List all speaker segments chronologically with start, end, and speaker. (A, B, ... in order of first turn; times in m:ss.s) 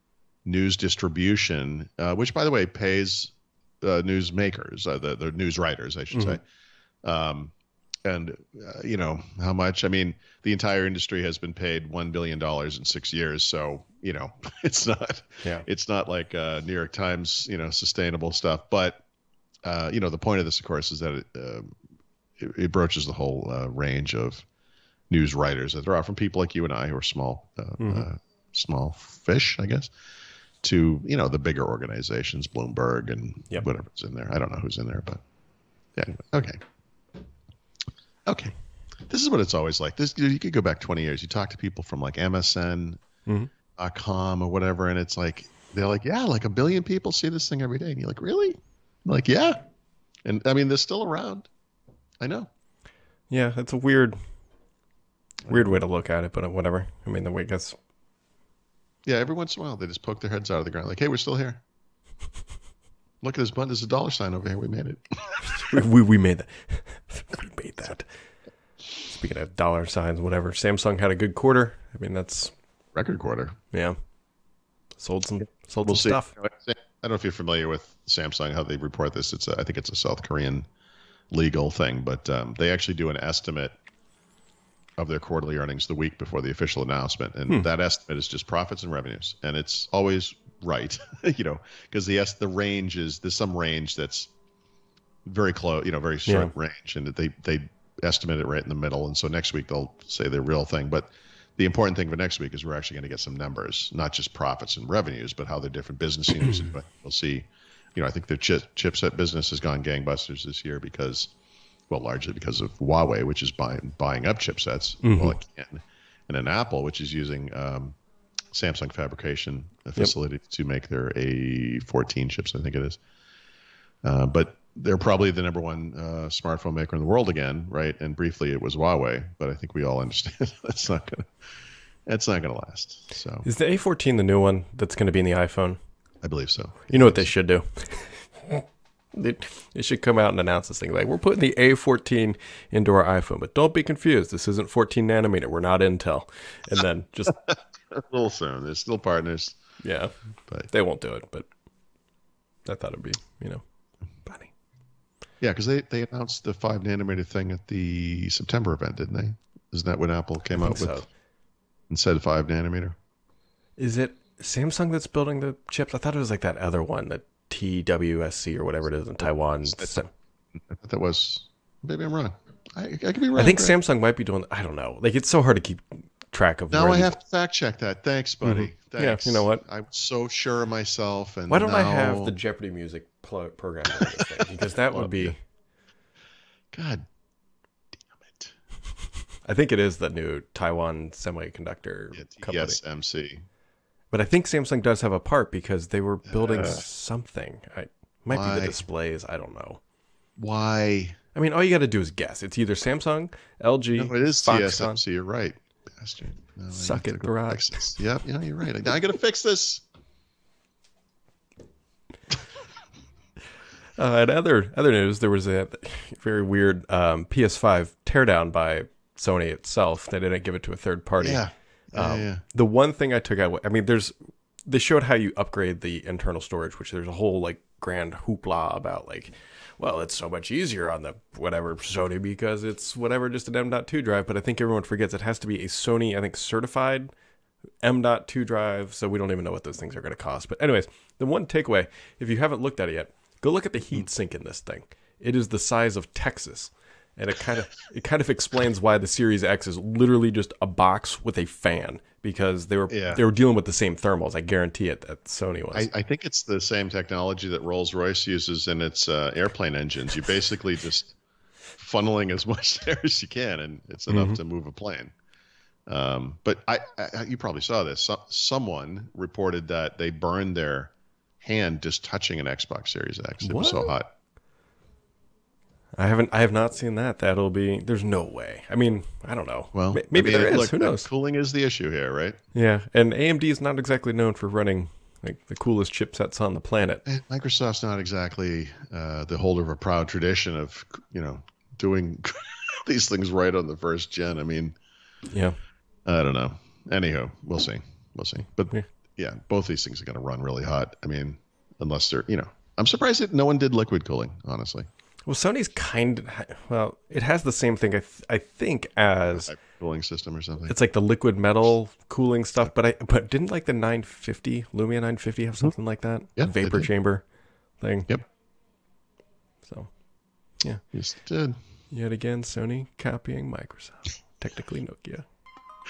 0:00.4-0:06.4 A
0:06.1-0:06.4 B
0:07.0-0:07.5 A
0:08.0-0:19.0 A
0:19.6-0:21.7 A
0:22.4-0:24.4 A
0:25.1-0:29.9 A
0:27.8-0:28.1 B
0:30.6-0:35.2 A
0:36.0-0:36.6 A
0:38.3-0:38.5 A
0:39.1-0:43.0 A
0:43.8-0:49.6 A
0:50.2-0:51.5 A
0:52.2-0:52.5 A
0:53.3-0:54.2 B
0:55.5-0:57.8 B
0:59.1-1:01.6 A
1:03.2-1:05.7 A
1:05.6-1:08.1 B
1:09.1-1:12.5 B
1:12.9-1:13.6 A
1:15.0-1:16.3 B
1:15.8-1:20.6 A
1:21.3-1:23.8 A
1:25.0-1:34.3 A
1:35.2-1:51.3 A
1:36.3-1:36.5 B
1:51.9-1:58.0 A
1:55.0-1:55.4 B
1:58.5-2:03.0 A
2:04.0-2:11.3 A
2:12.1-2:13.5 A
2:13.4-2:15.8 B
2:16.2-2:17.3 A
2:16.9-2:18.6 B
2:19.1-2:27.3 B
2:27.4-2:29.6 A
2:29.8-2:30.1 B
2:30.7-2:31.5 B
2:32.6-2:33.6 B
2:34.2-2:34.5 B
2:35.4-2:41.0 A
2:40.6-2:41.0 B
2:41.9-2:42.9 A
2:43.8-2:50.1 B
2:49.7-2:50.0 A
2:50.5-2:53.7 A
2:53.3-2:57.1 B
2:56.7-3:02.3 A
2:58.4-2:59.6 B
3:01.5-3:05.4 B
3:04.9-3:05.3 A
3:06.7-3:07.0 A
3:08.1-3:08.5 A
3:09.4-3:12.8 B
3:12.1-3:13.4 A
3:14.1-3:19.8 B
3:16.2-3:16.8 A
3:18.3-3:18.8 A
3:20.4-3:21.2 A
3:21.3-3:25.0 B
3:24.0-3:29.8 A
3:26.7-3:28.0 B
3:34.0-3:44.1 B
3:41.2-3:42.4 A
3:44.7-3:57.1 B
3:57.8-4:15.9 B
4:12.9-4:13.2 A
4:15.7-4:21.2 A
4:21.8-4:25.1 A
4:24.1-4:24.4 B
4:25.9-4:34.1 A
4:33.4-4:33.9 B
4:36.0-4:41.1 B
4:39.7-4:42.4 A
4:42.5-4:47.0 B
4:47.0-4:54.8 A
4:55.3-4:55.6 B
4:56.0-5:04.9 A
5:05.2-5:09.5 B
5:09.3-5:10.7 A
5:10.6-5:17.2 B
5:16.4-5:16.9 A
5:17.8-5:18.1 B
5:19.6-5:20.0 B
5:20.9-5:21.6 A
5:21.9-5:25.2 B